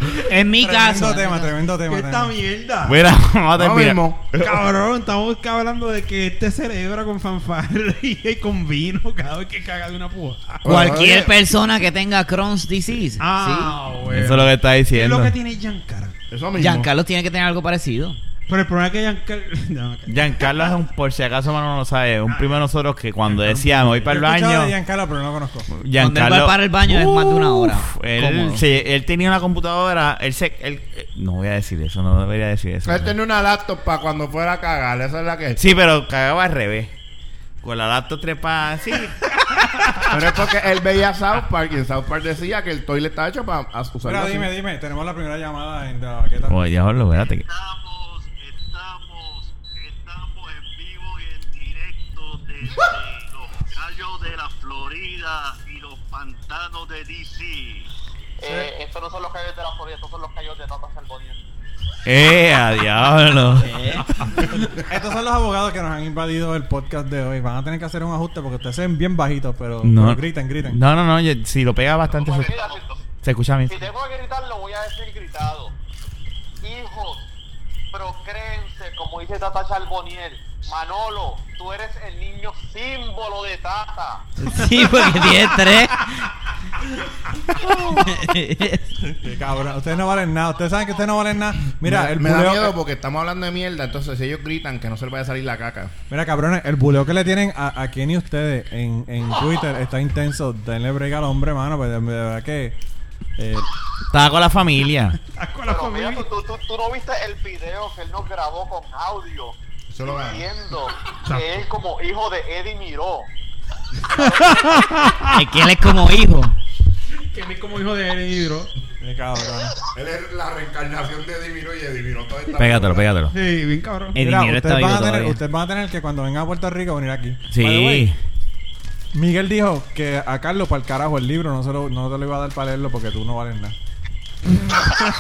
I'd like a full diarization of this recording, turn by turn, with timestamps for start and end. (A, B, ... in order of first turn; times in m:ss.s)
0:00.3-0:01.5 A
0:00.6-0:02.4 B
0:01.9-0:03.0 C
0:02.8-0:04.5 D
0:03.6-0:04.5 E
0:04.4-0:10.7 C
0:10.6-0:11.4 E
0:10.6-0:13.7 A
0:13.2-0:16.2 C
0:14.0-0:15.4 D
0:16.3-0:16.9 E
0:16.6-0:18.2 A
0:18.5-0:20.7 C
0:20.1-0:24.7 D
0:22.3-0:22.6 C
0:23.2-0:24.1 C
0:24.0-0:25.7 B
0:25.7-0:33.1 D
0:26.0-0:28.6 A
0:32.8-0:35.6 E
0:35.6-0:36.9 D
0:37.6-0:39.2 D
0:40.1-0:44.5 E
0:44.1-0:46.7 B
0:46.5-0:47.4 D
0:47.1-0:57.9 F
0:58.4-1:01.4 G
1:02.0-1:04.3 D
1:03.6-1:04.1 A
1:04.7-1:10.8 B
1:09.8-1:12.6 D
1:12.1-1:13.0 F
1:12.3-1:12.9 G
1:13.2-1:13.9 D
1:13.7-1:15.7 G
1:16.6-1:17.3 G
1:17.9-1:24.3 G
1:24.4-1:26.2 A
1:24.7-1:25.7 C
1:27.6-1:28.2 B
1:27.9-1:28.9 A
1:29.0-1:32.7 B
1:31.8-1:35.9 E
1:36.1-1:42.8 B
1:43.4-1:43.7 B
1:44.1-1:45.2 D
1:45.3-1:46.3 C
1:45.7-1:53.3 G
1:49.9-1:50.4 E
1:51.3-1:51.6 C
1:54.1-1:54.8 G
1:54.2-1:55.4 C
1:55.3-1:56.6 A
1:57.3-1:58.7 C
1:59.0-1:59.8 B
1:59.9-2:03.1 E
2:02.6-2:03.3 D
2:03.3-2:04.2 C
2:04.1-2:05.4 A
2:04.2-2:08.1 B
2:07.5-2:08.2 D
2:09.1-2:13.7 B